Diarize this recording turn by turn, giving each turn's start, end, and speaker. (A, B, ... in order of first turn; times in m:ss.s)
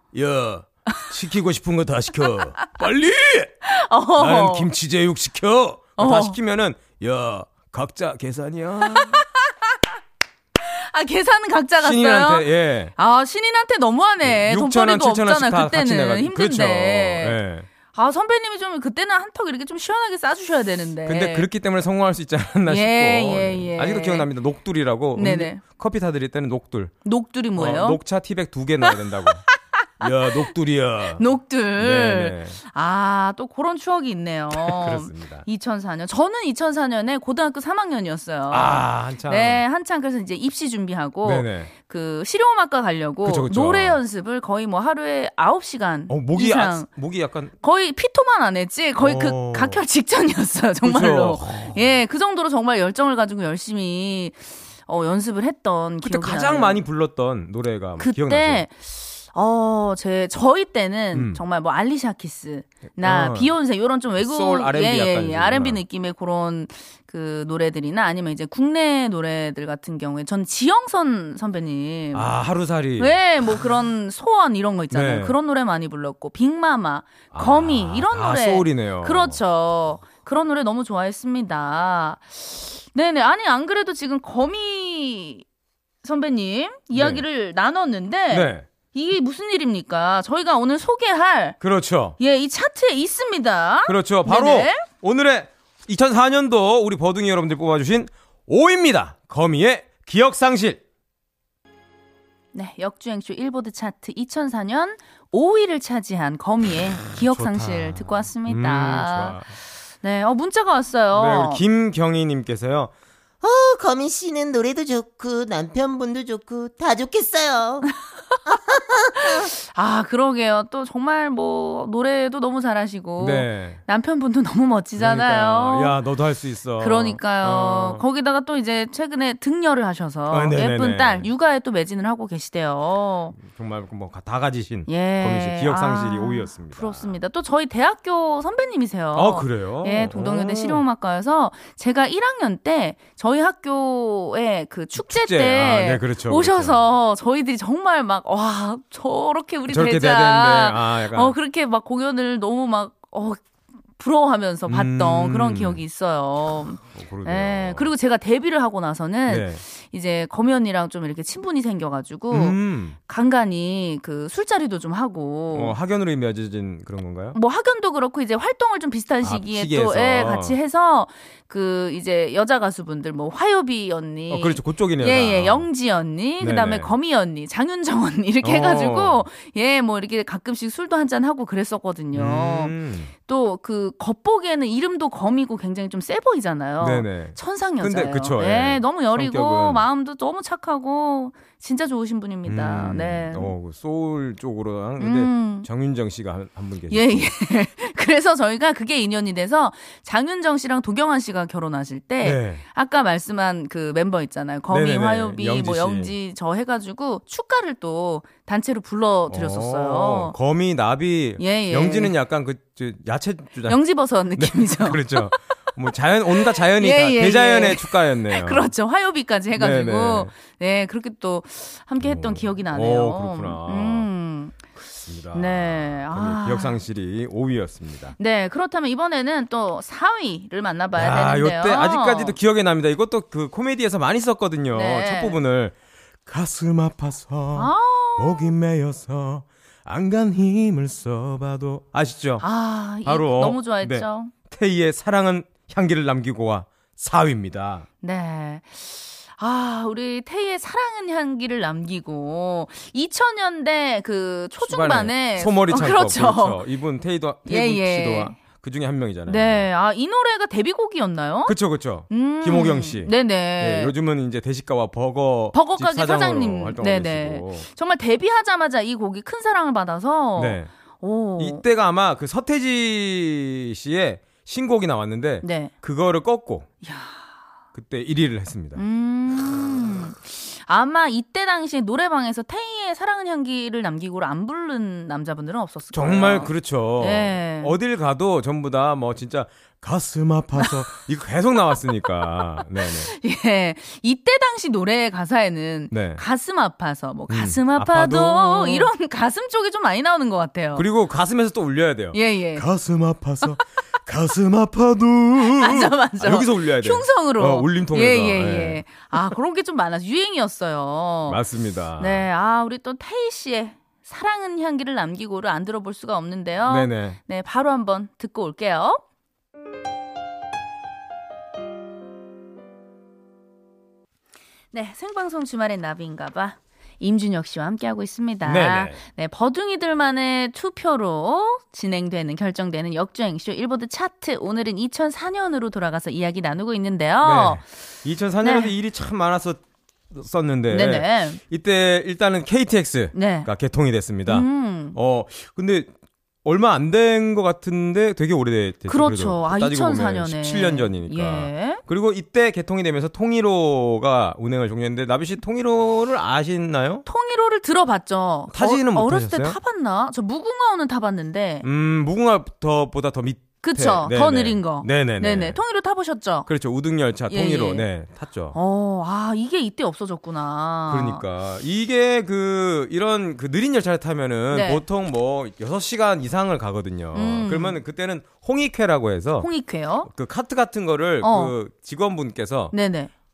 0:00.1-0:03.5 A
0:03.6-0:04.7 B
0:04.2-0:09.2 A
0:06.0-0:06.4 B
0:08.8-0:09.8 B
0:10.6-0:17.4 B
0:11.8-0:12.9 A
0:14.2-0:17.7 A
0:17.9-0:21.5 B
0:21.0-0:26.9 A
0:22.7-0:24.3 B
0:25.1-0:25.6 B
0:27.0-0:28.0 B
0:27.6-0:29.4 A
0:29.5-0:30.4 B
0:30.0-0:31.2 A
0:31.1-0:46.8 B
0:31.8-0:32.6 A
0:34.5-0:35.4 A
0:38.5-0:39.6 A
0:41.2-0:41.7 A
0:43.2-0:44.0 A
0:46.1-0:47.5 A
0:47.6-0:56.8 B
0:49.0-0:49.8 A
0:50.8-0:51.9 A
0:56.0-0:58.6 A
0:58.0-1:12.3 B
1:01.1-1:01.4 A
1:03.0-1:03.5 A
1:04.2-1:05.8 A
1:12.1-1:13.2 A
1:13.0-1:25.4 B
1:14.9-1:15.3 A
1:17.3-1:19.4 A
1:26.0-1:31.6 B
1:26.9-1:27.2 A
1:28.3-1:28.7 A
1:31.6-1:32.2 A
1:32.2-1:34.8 B
1:33.8-1:40.8 A
1:42.5-1:51.6 B
1:47.2-1:49.5 A
1:51.1-1:52.9 A
1:53.4-1:57.9 C
1:58.5-1:59.5 C
1:59.1-2:06.0 B
2:03.2-2:03.8 A
2:05.0-2:08.0 A
2:06.8-2:13.4 B
2:10.3-2:11.3 A
2:13.3-2:17.2 A
2:14.9-2:33.4 B
2:19.1-2:20.8 A
2:25.0-2:26.8 A
2:29.7-2:31.3 A
2:34.0-2:45.8 B
2:34.7-2:35.8 A
2:36.8-2:37.9 A
2:39.3-2:39.6 A
2:42.3-2:43.0 A
2:45.5-2:47.4 A
2:47.3-3:02.7 B
2:49.2-2:50.6 A
2:54.3-2:55.6 A
2:56.4-2:56.9 A
2:58.4-2:59.2 A
3:02.1-3:03.1 A
3:03.2-3:13.5 B
3:06.8-3:09.8 A
3:12.4-3:17.3 A
3:15.0-3:15.7 B
3:16.9-3:30.3 B
3:22.2-3:22.6 A
3:24.7-3:26.1 A
3:29.3-3:33.8 A
3:31.4-3:32.1 B
3:33.7-3:35.4 B
3:34.4-3:38.7 A
3:36.3-3:44.6 B
3:39.6-3:40.3 A
3:42.0-3:44.1 A
3:44.8-3:48.1 A
3:45.3-3:46.8 B
3:48.2-3:52.4 B
3:50.9-3:55.7 A
3:54.7-3:55.4 B
3:56.2-4:02.4 A
3:57.5-3:58.5 B
4:02.4-4:04.3 B
4:03.0-4:07.8 A
4:08.0-4:16.6 B
4:14.6-4:19.7 A
4:17.4-4:18.4 B
4:19.3-4:21.5 B
4:21.5-4:27.6 A
4:22.1-4:23.9 B
4:25.5-4:31.6 B
4:30.4-4:30.7 A
4:31.4-4:36.7 A
4:35.4-4:35.7 B
4:36.8-4:37.2 B
4:37.7-4:38.8 A
4:38.7-4:47.7 B
4:39.4-4:40.0 A
4:45.9-4:53.1 A
4:52.8-5:00.8 B
4:55.9-4:56.2 A
4:57.3-4:58.9 A
5:00.8-5:09.0 A
5:02.1-5:02.6 B
5:05.4-5:11.4 B
5:11.3-5:12.2 A
5:12.0-5:19.0 B
5:16.6-5:17.2 A
5:24.7-5:37.6 B
5:28.4-5:29.0 A
5:37.2-5:45.9 A
5:38.4-5:38.7 B
5:40.7-5:41.4 B
5:43.1-5:43.5 B
5:44.3-5:45.0 B
5:46.4-5:57.0 A
5:48.9-5:51.8 B
5:57.0-6:01.6 B
5:58.5-5:59.6 A
6:01.6-6:05.6 A
6:03.6-6:06.5 B
6:06.4-6:08.6 A
6:07.3-6:07.8 B
6:08.5-6:11.2 B
6:10.9-6:19.5 A
6:14.5-6:14.8 B
6:17.1-6:17.8 B
6:19.4-6:20.1 B
6:20.0-6:22.7 A
6:21.2-6:21.5 B
6:22.7-6:23.1 B